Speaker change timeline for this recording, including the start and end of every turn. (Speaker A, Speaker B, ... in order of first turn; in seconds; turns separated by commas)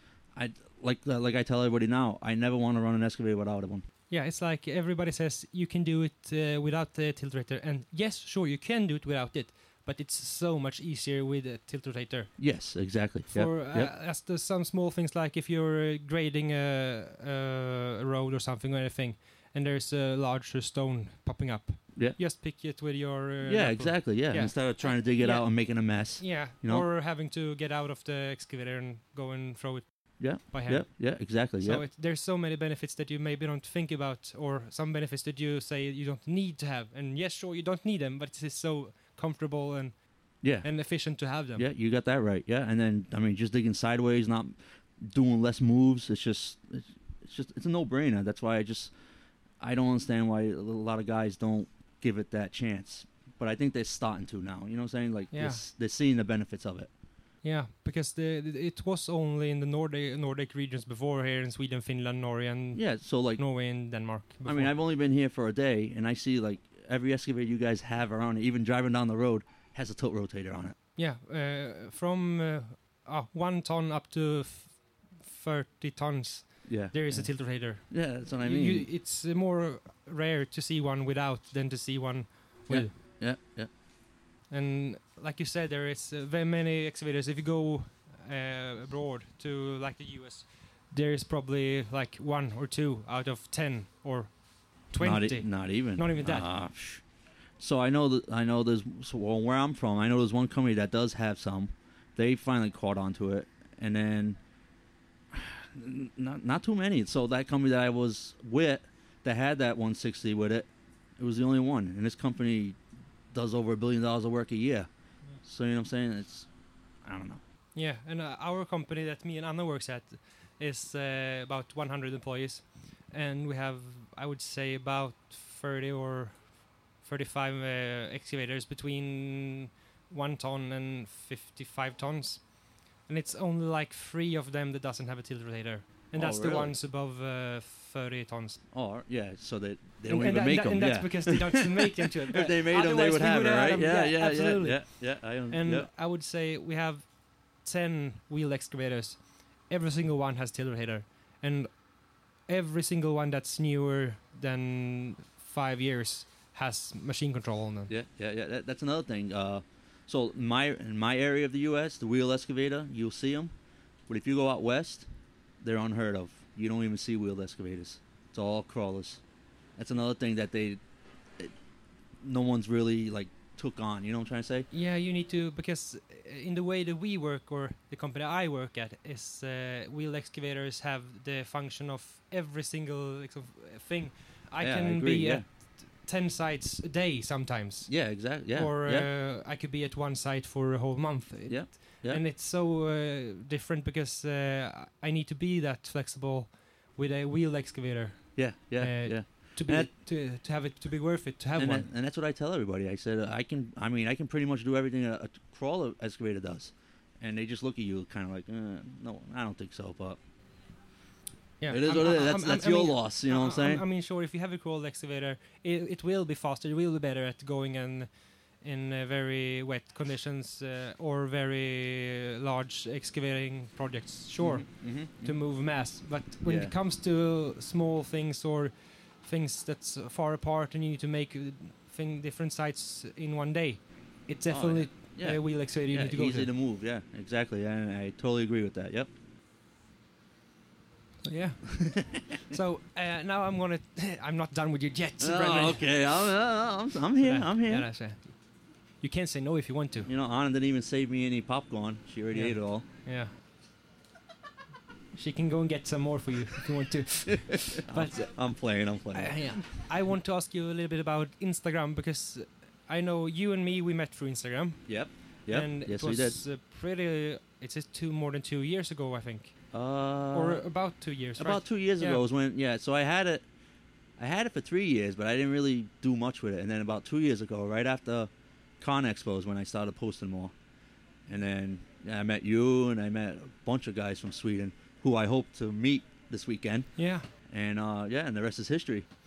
Speaker A: 0.3-3.8, Speaker B: 4.1-12.3, Speaker A: 12.4-13.9, Speaker B: 13.3-41.7, Speaker A: 23.4-26.9, Speaker A: 30.2-31.8, Speaker A: 40.4-48.9, Speaker A: 49.6-56.9, Speaker B: 55.3-55.6, Speaker B: 57.4-64.7, Speaker A: 62.7-63.4, Speaker A: 64.4-70.7, Speaker B: 71.0-82.9, Speaker A: 76.6-78.9, Speaker A: 82.7-83.7, Speaker B: 84.5-94.4, Speaker B: 94.9-96.5, Speaker A: 95.0-97.0, Speaker A: 97.6-104.4, Speaker A: 105.3-110.7, Speaker A: 111.2-112.8, Speaker A: 113.3-114.9, Speaker A: 115.4-116.5, Speaker A: 117.0-117.4, Speaker B: 117.7-138.6, Speaker A: 136.1-136.7, Speaker A: 138.7-145.9, Speaker B: 140.1-147.1, Speaker B: 147.6-151.7, Speaker B: 152.5-157.9, Speaker A: 157.9-163.5, Speaker A: 164.1-165.1, Speaker A: 165.6-169.2, Speaker A: 169.8-170.8, Speaker A: 172.2-174.7, Speaker B: 174.7-201.9, Speaker A: 184.6-185.4, Speaker A: 187.9-189.1, Speaker A: 191.5-192.2, Speaker A: 198.3-199.9, Speaker A: 201.6-210.2, Speaker B: 211.6-218.1, Speaker A: 211.7-213.8, Speaker B: 218.6-236.5, Speaker A: 224.4-225.4, Speaker A: 226.4-226.7, Speaker A: 234.5-239.1, Speaker B: 241.2-245.9, Speaker A: 241.7-242.2, Speaker A: 245.2-247.9, Speaker B: 247.2-248.4, Speaker B: 249.0-250.1, Speaker A: 250.1-252.9, Speaker B: 252.3-253.3, Speaker B: 255.1-258.3, Speaker A: 257.3-259.6, Speaker B: 259.1-264.8, Speaker A: 264.9-266.4, Speaker B: 265.5-269.5, Speaker A: 269.7-270.6, Speaker B: 270.3-272.2, Speaker A: 271.4-273.4, Speaker A: 274.2-278.3, Speaker A: 278.8-280.5, Speaker A: 281.3-289.1, Speaker B: 287.0-287.3